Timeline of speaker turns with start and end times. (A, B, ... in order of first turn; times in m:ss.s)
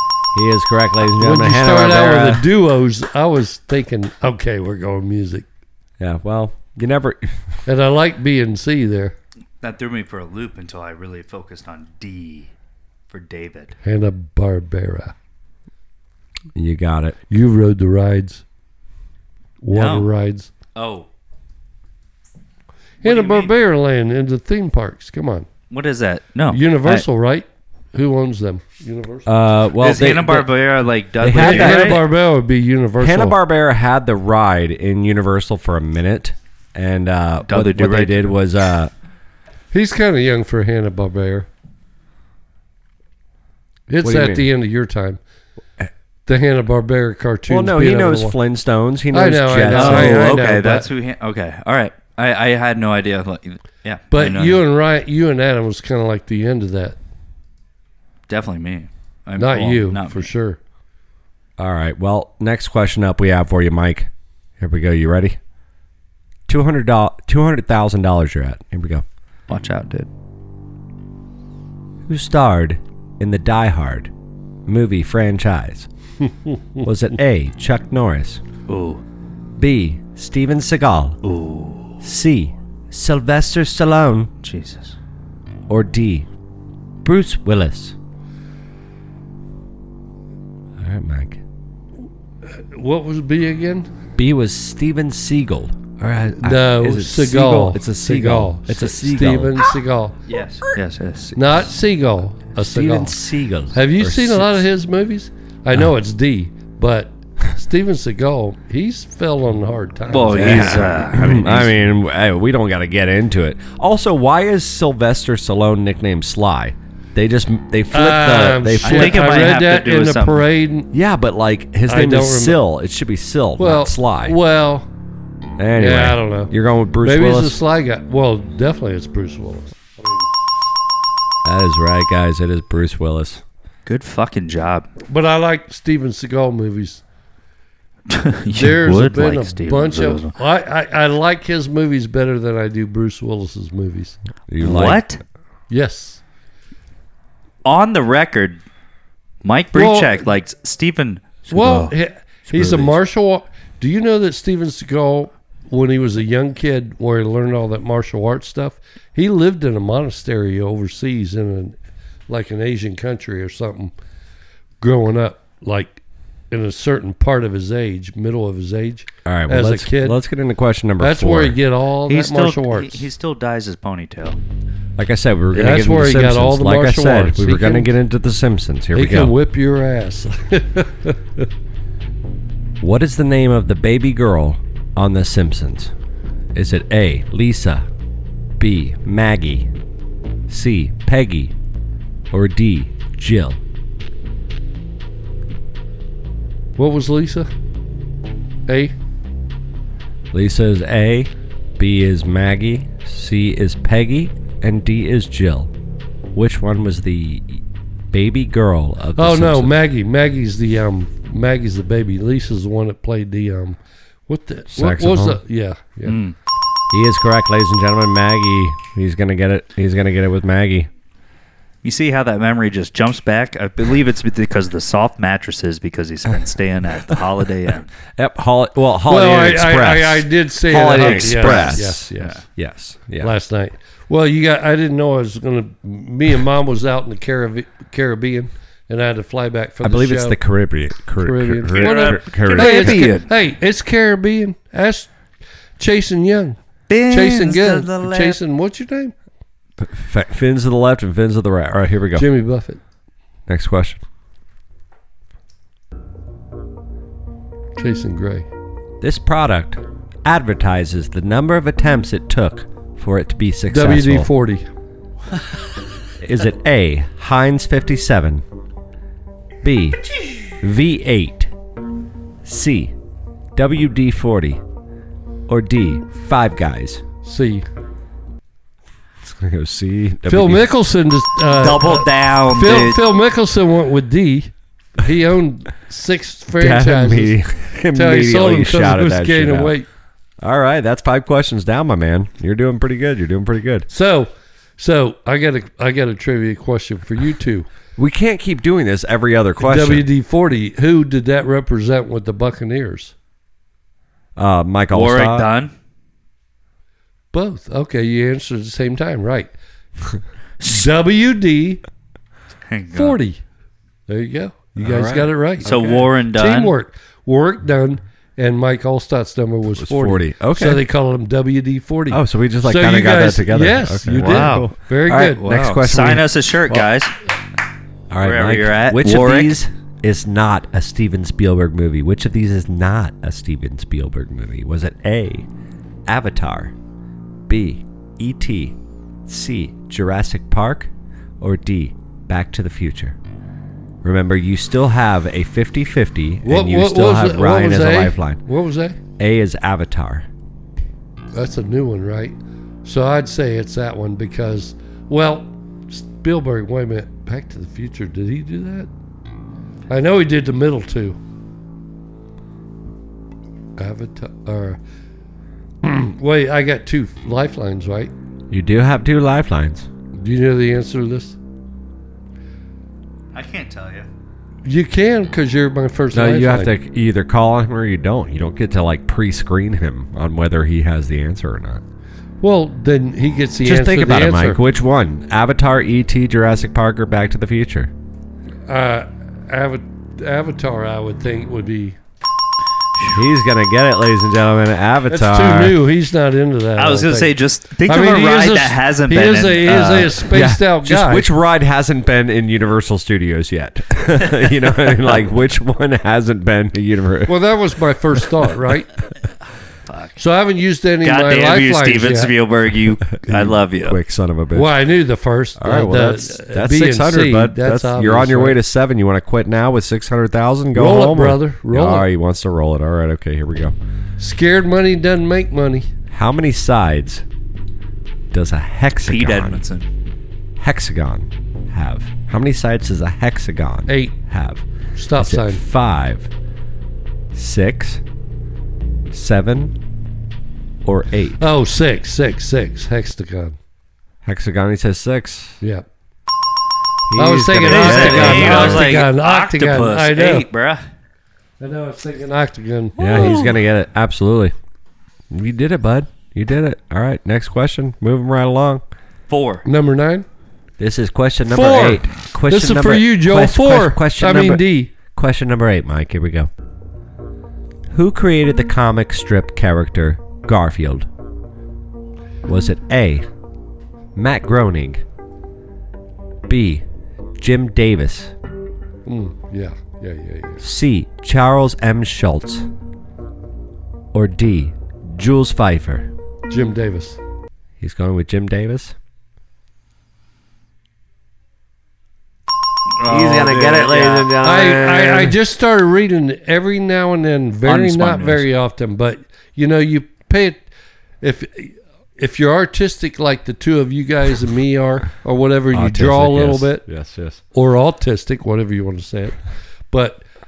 0:00.3-0:02.5 A
0:01.2-0:05.5 B
0:06.0-0:07.4 A
0:07.7-0:09.2 B
0:09.6-0:12.5 C
0:13.1-0:13.8 C
0:13.8-0:15.1 B
0:16.6-0:17.2 A
0:17.3-0:18.4 B
0:19.6-0:20.5 B
0:19.7-0:20.1 C
0:20.8-0:21.1 C
0:23.0-0:23.5 C
0:23.0-0:25.5 B
0:25.7-0:27.1 C
0:26.5-0:29.3 B
0:29.3-0:30.5 A
0:29.8-0:32.1 C
0:31.2-0:32.1 A
0:31.3-0:33.4 B
0:33.0-0:38.9 A
0:37.5-0:38.4 C
0:39.7-0:41.5 B
0:43.9-0:45.2 B
0:44.0-0:44.5 A
0:46.3-0:48.4 B
0:47.5-0:50.3 A
0:49.1-0:50.9 B
0:49.7-0:54.6 C
0:54.1-0:57.0 B
0:58.3-1:00.3 C
0:59.4-1:00.6 B
1:01.6-1:05.4 A
1:06.5-1:09.0 A
1:09.5-1:10.1 C
1:12.1-1:14.1 A
1:14.7-1:15.9 A
1:16.8-1:18.4 A
1:18.7-1:19.0 C
1:19.6-1:21.2 A
1:21.2-1:22.0 C
1:22.0-1:24.3 A
1:24.4-1:25.0 C
1:25.7-1:26.3 A
1:27.0-1:28.0 A
1:30.8-1:31.4 A
1:32.5-1:33.9 B
1:34.2-1:39.6 A
1:36.4-1:40.2 B
1:40.3-1:41.4 C
1:41.4-1:43.2 B
1:42.6-1:44.7 A
1:43.7-1:51.0 B
1:50.1-1:51.8 C
1:50.4-1:59.3 A
1:57.9-2:00.9 B
1:58.8-2:00.5 C
2:00.9-2:04.4 A
2:01.9-2:02.6 B
2:03.6-2:04.9 B
2:05.6-2:07.6 A
2:05.8-2:10.3 B
2:11.4-2:13.4 A
2:13.9-2:14.9 C
2:15.1-2:17.0 B
2:18.1-2:20.3 C
2:18.5-2:24.2 B
2:24.5-2:25.0 A
2:24.6-2:25.2 C
2:25.7-2:26.2 B
2:27.6-2:28.6 C
2:29.4-2:31.9 C
2:29.7-2:30.3 B
2:31.5-2:41.8 B
2:32.5-2:33.0 A
2:42.3-2:43.9 B
2:44.8-2:46.0 B
2:46.5-2:50.2 B
2:49.2-2:51.6 A
2:51.0-2:53.0 B
2:52.1-2:54.4 C
2:55.0-2:59.3 A
2:55.5-2:57.9 B
2:58.9-3:01.5 B
3:02.8-3:05.9 A
3:06.5-3:07.9 A
3:08.6-3:09.7 A
3:10.5-3:11.6 A
3:12.3-3:13.6 A
3:16.8-3:17.5 B
3:18.7-3:18.9 B
3:20.3-3:25.7 A
3:26.3-3:29.8 A
3:29.2-3:36.2 B
3:34.7-3:35.4 A
3:36.1-3:36.4 C
3:36.9-3:40.9 A
3:41.8-3:47.9 C
3:48.2-3:53.3 A
3:49.1-3:52.4 B
3:50.9-3:52.4 C
3:53.2-4:00.4 B
3:59.8-4:03.1 A
4:01.2-4:05.1 B
4:01.8-4:03.3 C
4:05.8-4:09.1 B
4:06.9-4:08.4 C
4:09.8-4:12.3 A
4:12.2-4:12.8 B
4:13.5-4:14.0 A
4:17.8-4:18.5 B
4:19.0-4:24.3 A
4:23.7-4:24.7 B
4:26.2-4:28.4 A
4:29.6-4:30.0 A
4:30.6-4:31.5 A
4:32.4-4:32.9 A
4:33.6-4:34.6 A
4:35.5-4:37.0 A
4:37.2-4:37.7 B
4:39.2-4:40.7 A
4:40.2-4:47.4 B
4:41.5-4:43.0 C
4:46.6-4:49.8 A
4:47.9-4:49.9 B
4:50.4-4:53.9 A
4:53.9-4:57.7 B
4:58.0-5:00.1 A
4:59.6-5:03.1 B
5:04.4-5:05.5 A
5:04.9-5:05.7 C
5:07.3-5:09.5 B
5:10.6-5:11.8 B
5:12.7-5:13.2 C
5:12.9-5:13.4 B
5:14.1-5:25.5 B
5:14.8-5:15.3 A
5:15.6-5:16.7 C
5:19.7-5:20.8 A
5:22.1-5:26.8 A
5:24.2-5:27.1 C
5:28.1-5:35.5 A
5:28.2-5:29.6 C
5:36.1-5:36.7 A
5:37.5-5:38.8 A
5:39.3-5:40.9 A
5:41.4-5:43.2 A
5:44.0-5:48.4 A
5:46.4-5:49.0 B
5:49.2-5:50.3 A
5:51.3-5:58.9 B
5:59.9-6:01.2 B
6:03.8-6:04.8 B
6:05.8-6:08.1 B
6:08.5-6:09.9 A
6:10.2-6:11.4 B
6:13.3-6:14.1 C
6:14.6-6:16.8 B
6:16.1-6:21.8 A
6:22.4-6:24.6 B
6:23.6-6:27.9 A
6:28.7-6:32.0 B
6:33.1-6:35.8 A
6:35.1-6:41.3 B
6:36.8-6:40.2 C
6:40.3-6:47.4 A
6:47.3-6:48.9 B
6:50.2-6:52.3 B
6:51.0-6:54.0 C
6:53.3-6:54.8 A
6:54.5-6:58.6 B
6:55.6-7:03.8 A
7:00.7-7:02.1 B
7:04.2-7:05.9 B
7:06.1-7:07.2 A
7:08.3-7:09.6 A
7:09.0-7:09.9 C
7:10.6-7:14.6 A
7:13.9-7:14.2 B
7:15.0-7:15.6 B
7:15.2-7:16.3 A
7:17.3-7:18.0 A
7:19.1-7:19.7 A
7:20.8-7:21.4 A
7:21.4-7:23.6 B
7:24.2-7:25.6 A
7:27.1-7:28.9 A
7:27.2-7:30.5 B
7:27.6-7:30.8 C
7:31.6-7:33.4 B
7:33.0-7:33.6 C
7:33.0-7:34.5 A
7:35.3-7:38.8 A
7:39.3-7:39.6 C
7:39.6-7:40.3 B
7:40.8-7:46.5 A
7:41.4-7:44.9 B
7:47.9-7:51.1 A
7:52.5-7:53.3 A
7:54.2-7:55.0 A
7:56.5-7:56.8 A
7:57.4-7:58.3 A
7:59.0-8:00.6 B
8:00.6-8:02.7 A
8:04.1-8:06.1 A
8:06.5-8:07.2 B
8:07.8-8:09.0 A
8:13.0-8:14.3 C
8:13.0-8:15.3 A
8:14.4-8:20.6 B
8:17.6-8:18.4 C
8:21.2-8:26.8 B
8:25.7-8:27.4 A
8:27.5-8:29.4 B
8:29.9-8:30.2 B